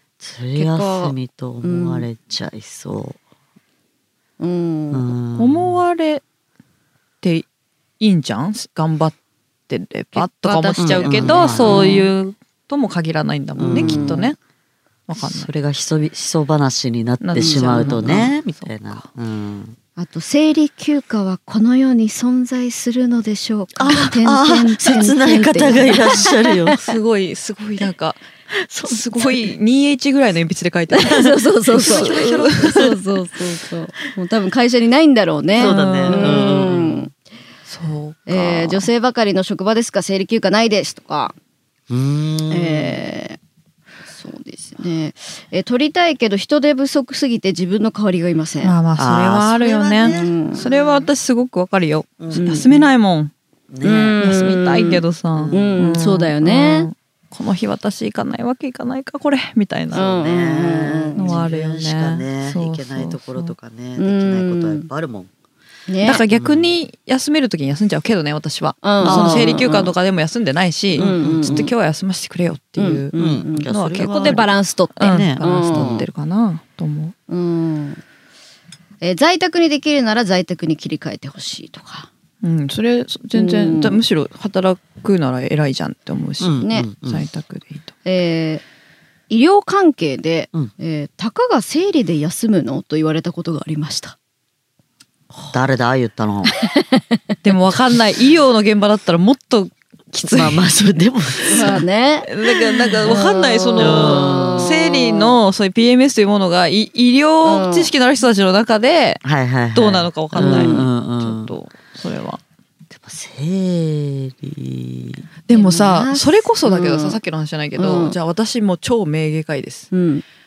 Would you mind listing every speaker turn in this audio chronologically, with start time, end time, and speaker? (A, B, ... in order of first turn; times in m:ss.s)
0:00.2-0:03.2 A
0:00.6-0:02.1 B
0:04.4-0:05.2 B
0:04.9-0:05.8 A
0:05.3-0:06.2 C
0:08.0-0:09.2 C
0:09.7-0:14.4 C
0:10.1-0:12.1 B
0:10.8-0:12.0 A
0:13.6-0:14.3 A
0:13.7-0:14.3 B
0:15.1-0:15.5 C
0:15.2-0:19.8 A
0:17.2-0:19.0 C
0:17.4-0:18.2 B
0:20.0-0:26.8 B
0:23.8-0:26.8 A
0:26.7-0:28.3 C
0:28.6-0:29.5 A
0:28.8-0:32.8 C
0:30.9-0:37.1 B
0:31.7-0:33.0 A
0:35.6-0:37.1 A
0:35.6-0:36.4 C
0:37.7-0:38.9 C
0:38.3-0:41.4 B
0:41.9-0:43.0 A
0:42.5-0:43.4 B
0:44.1-0:48.8 B
0:48.6-0:53.3 C
0:49.0-0:50.3 A
0:50.1-0:51.1 B
0:52.2-0:52.6 A
0:52.3-0:52.8 B
0:53.7-0:54.2 A
0:53.8-0:56.9 B
0:54.2-1:00.1 C
0:55.3-0:55.8 A
0:59.9-1:05.3 A
0:59.9-1:01.4 B
1:01.1-1:03.5 C
1:04.0-1:04.9 B
1:05.9-1:06.2 B
1:06.0-1:17.2 C
1:06.3-1:06.7 A
1:08.8-1:09.9 B
1:09.0-1:09.7 A
1:11.0-1:11.7 A
1:11.0-1:11.7 B
1:12.8-1:16.1 B
1:13.1-1:16.0 A
1:17.3-1:18.0 B
1:19.0-1:22.1 B
1:22.4-1:27.9 C
1:23.3-1:24.0 B
1:26.4-1:27.2 A
1:26.6-1:26.9 B
1:28.0-1:28.6 B
1:29.3-1:34.2 B
1:35.5-1:36.5 A
1:36.8-1:37.2 B
1:37.4-1:40.7 C
1:40.3-1:41.8 A
1:41.5-1:42.3 B
1:41.5-1:52.4 C
1:43.0-1:45.4 B
1:43.8-1:44.7 A
1:47.4-1:47.9 B
1:49.2-1:51.5 A
1:50.4-1:50.9 B
1:52.9-1:55.3 A
1:55.5-1:59.9 C
1:55.5-1:57.2 B
1:57.8-1:58.2 B
1:59.9-2:00.2 B